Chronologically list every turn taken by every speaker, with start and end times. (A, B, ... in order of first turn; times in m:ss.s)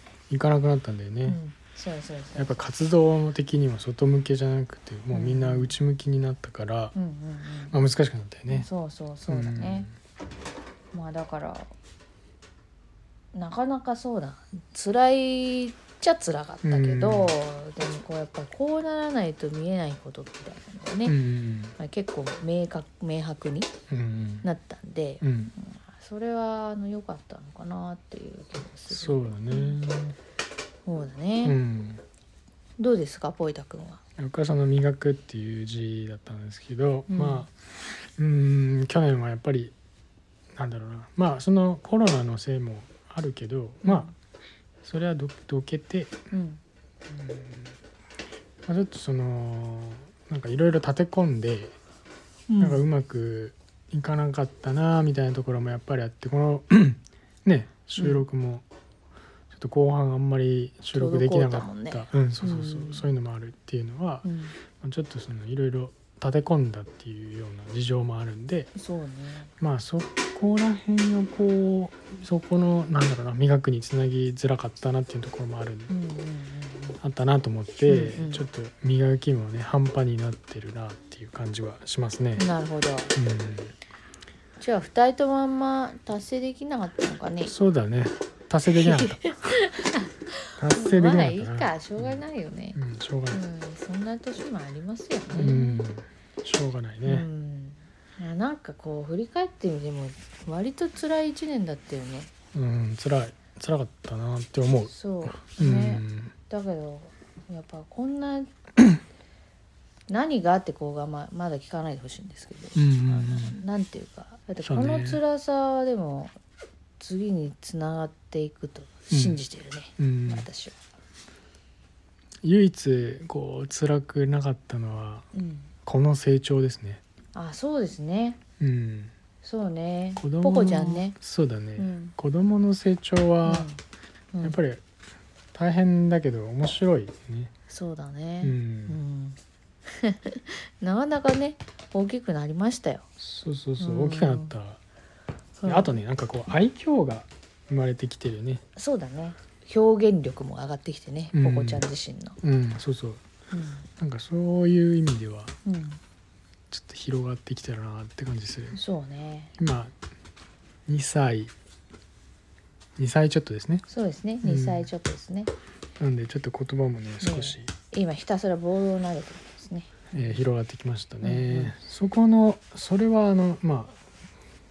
0:00.3-0:01.4 A
0:01.2-0:02.6 B
0:02.4-0:06.9 A
0:05.1-0:05.8 B
0:06.9-0:07.8 B
0:07.7-0:08.7 A
0:08.5-0:09.9 B
0:09.3-0:09.9 A
0:10.9-0:11.7 B
0:13.3-0:21.2 B
0:16.6-0:17.4 A
0:21.0-0:21.8 A
0:21.8-0:23.7 B
0:23.9-0:24.5 A
0:24.4-0:29.8 B
0:25.2-0:25.5 A
0:28.9-0:30.2 A
0:30.8-0:31.6 B
0:31.4-0:32.0 A
0:32.8-0:34.0 B
0:34.2-0:37.5 A
0:37.1-0:37.5 B
0:38.2-0:39.7 A
0:40.5-0:44.1 A
0:43.8-0:44.1 B
0:44.8-0:46.1 A
0:46.3-0:46.6 B
0:47.1-0:47.7 A
0:48.6-0:51.8 A
0:52.5-0:52.9 B
0:52.6-0:58.6 A
0:58.0-0:58.2 B
0:59.5-1:08.7 A
1:00.9-1:03.1 B
1:04.2-1:04.6 B
1:08.7-1:09.5 B
1:09.6-1:15.9 A
1:15.9-1:17.0 B
1:17.0-1:22.5 A
1:17.8-1:18.4 B
1:22.4-1:23.1 B
1:23.1-1:23.7 A
1:24.6-1:27.5 B
1:27.4-1:29.3 A
1:28.8-1:32.8 B
1:30.6-1:32.2 A
1:32.7-1:33.4 A
1:33.3-1:35.8 B
1:35.3-1:37.3 A
1:37.0-1:42.3 B
1:42.5-1:46.3 A
1:44.9-1:48.5 B
1:50.1-1:56.3 B
1:52.7-1:53.6 A
1:54.6-1:55.2 A
1:57.0-2:00.8 B
1:59.1-1:59.4 A
2:00.0-2:00.5 A
2:02.4-2:05.3 A
2:05.3-2:05.7 B
2:05.8-2:07.0 A
2:07.3-2:08.4 B
2:08.6-2:09.1 A
2:09.4-2:11.1 B
2:10.2-2:13.7 A
2:11.8-2:12.1 B
2:13.4-2:13.8 B
2:14.3-2:14.6 B
2:14.4-2:14.8 A
2:15.5-2:17.5 A
2:17.7-2:19.4 B
2:18.4-2:19.0 A
2:19.9-2:23.0 B
2:23.2-2:24.8 A
2:23.8-2:24.5 B
2:25.6-2:25.9 B
2:25.6-2:28.6 A
2:28.7-2:32.4 B
2:31.3-2:31.8 A
2:32.4-2:33.2 A
2:33.5-2:33.9 B
2:34.0-2:35.6 A
2:35.6-2:36.0 B
2:36.7-2:38.8 A
2:38.7-2:39.5 B
2:39.6-2:39.9 A
2:40.9-2:41.5 A
2:43.0-2:43.8 A
2:43.9-2:45.5 B
2:44.4-2:44.9 A
2:46.0-2:47.7 A
2:47.2-2:50.1 B
2:50.1-2:54.0 A
2:51.2-2:51.7 B